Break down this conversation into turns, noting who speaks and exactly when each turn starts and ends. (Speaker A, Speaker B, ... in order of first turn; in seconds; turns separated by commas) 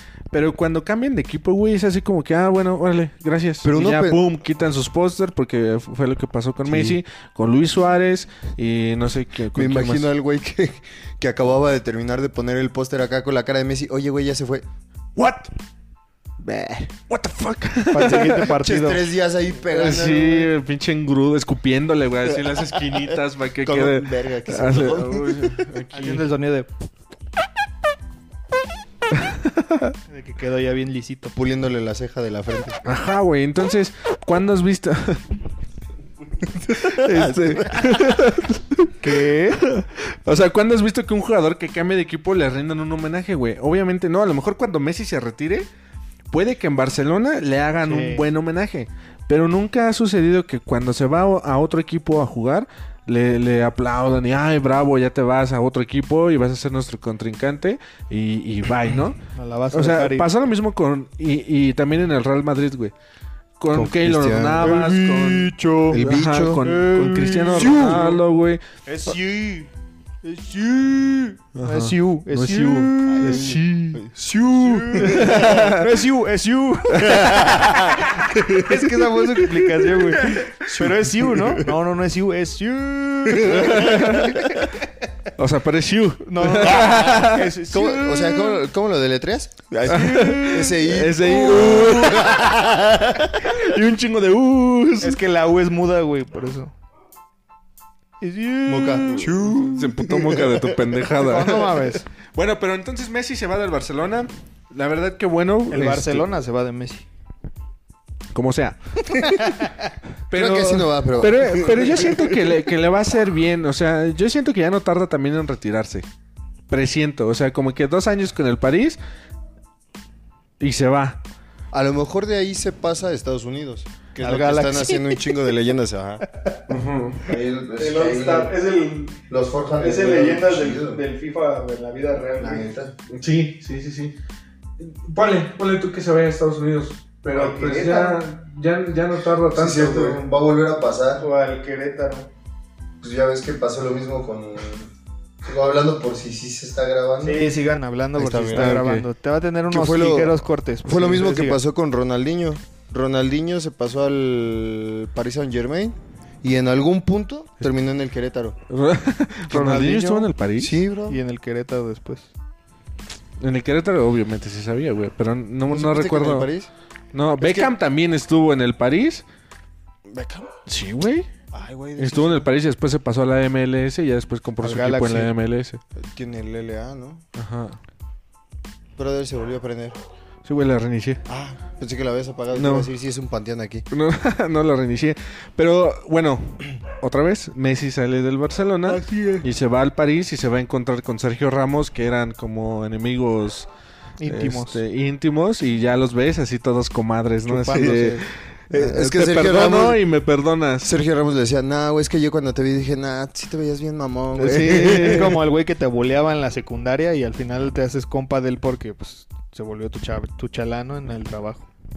Speaker A: 0.3-10.1, Speaker B: 3.6-4.2, Speaker B: 6.6-7.0, Speaker B: 9.5-14.6, Speaker A: 15.2-15.5, Speaker B: 16.4-16.9, Speaker A: 17.1-18.5, Speaker C: 17.9-19.0, Speaker B: 18.5-20.5, Speaker A: 19.7-26.2, Speaker B: 23.6-25.6, Speaker C: 25.9-26.7, Speaker A: 29.1-29.9, Speaker C: 30.1-31.3, Speaker B: 31.3-32.8, Speaker A: 32.8-35.2, Speaker B: 36.6-38.0, Speaker A: 36.7-45.7, Speaker C: 39.0-39.6, Speaker A: 46.3-59.2, Speaker C: 47.8-48.2, Speaker C: 59.3-60.3, Speaker A: 59.7-62.9, Speaker A: 63.6-68.6, Speaker B: 63.7-64.8, Speaker C: 64.6-66.0, Speaker B: 65.9-66.7, Speaker C: 66.6-68.2, Speaker C: 68.8-69.7, Speaker C: 70.2-84.7, Speaker A: 71.5-74.0, Speaker B: 73.2-75.7, Speaker A: 75.0-75.9, Speaker B: 77.0-79.0, Speaker A: 80.2-80.5, Speaker B: 80.7-81.8, Speaker B: 83.3-84.6, Speaker A: 83.5-84.4, Speaker A: 85.3-87.5, Speaker C: 86.2-88.6, Speaker B: 87.7-93.5, Speaker C: 89.9-92.2, Speaker A: 89.9-92.6, Speaker A: 93.3-95.2, Speaker C: 95.0-96.7, Speaker C: 98.2-99.7, Speaker B: 98.7-100.8, Speaker A: 99.6-106.2, Speaker C: 101.2-102.0, Speaker C: 105.7-107.0, Speaker A: 108.3-109.5, Speaker C: 109.1-109.9, Speaker A: 110.3-116.0, Speaker B: 110.3-112.5, Speaker A: 116.7-119.0, Speaker A: 120.6-121.2, Speaker B: 121.7-126.2, Speaker C: 124.2-125.4, Speaker A: 126.7-127.2, Speaker B: 127.2-128.5, Speaker C: 127.8-129.2, Speaker B: 129.3-131.0, Speaker C: 129.8-132.7, Speaker B: 132.4-132.9, Speaker A: 133.1-134.1, Speaker A: 134.8-140.2, Speaker C: 137.3-138.2, Speaker B: 139.5-141.2, Speaker C: 141.2-142.3, Speaker B: 143.0-144.9, Speaker B: 145.4-147.4, Speaker C: 147.2-151.6, Speaker B: 148.2-148.8, Speaker A: 148.5-149.0, Speaker B: 149.7-158.6, Speaker A: 158.7-160.8, Speaker C: 159.5-160.3, Speaker B: 160.6-161.2, Speaker C: 161.1-162.3, Speaker A: 163.4-166.5, Speaker B: 165.7-166.7, Speaker A: 167.1-169.2, Speaker B: 167.4-167.7, Speaker B: 170.1-170.6, Speaker A: 170.7-171.3, Speaker B: 171.5-172.5, Speaker A: 172.0-175.8, Speaker C: 174.6-175.3, Speaker B: 175.9-177.2, Speaker A: 177.3-177.8, Speaker B: 179.0-180.0, Speaker A: 180.4-181.2, Speaker B: 181.3-183.8, Speaker A: 182.5-182.9, Speaker A: 183.9-193.7, Speaker C: 188.9-189.4, Speaker C: 194.2-194.8, Speaker A: 194.2-200.9, Speaker C: 197.5-198.3, Speaker B: 197.7-198.0, Speaker B: 198.7-200.0, Speaker B: 200.8-205.3, Speaker A: 204.3-205.4, Speaker C: 204.9-211.7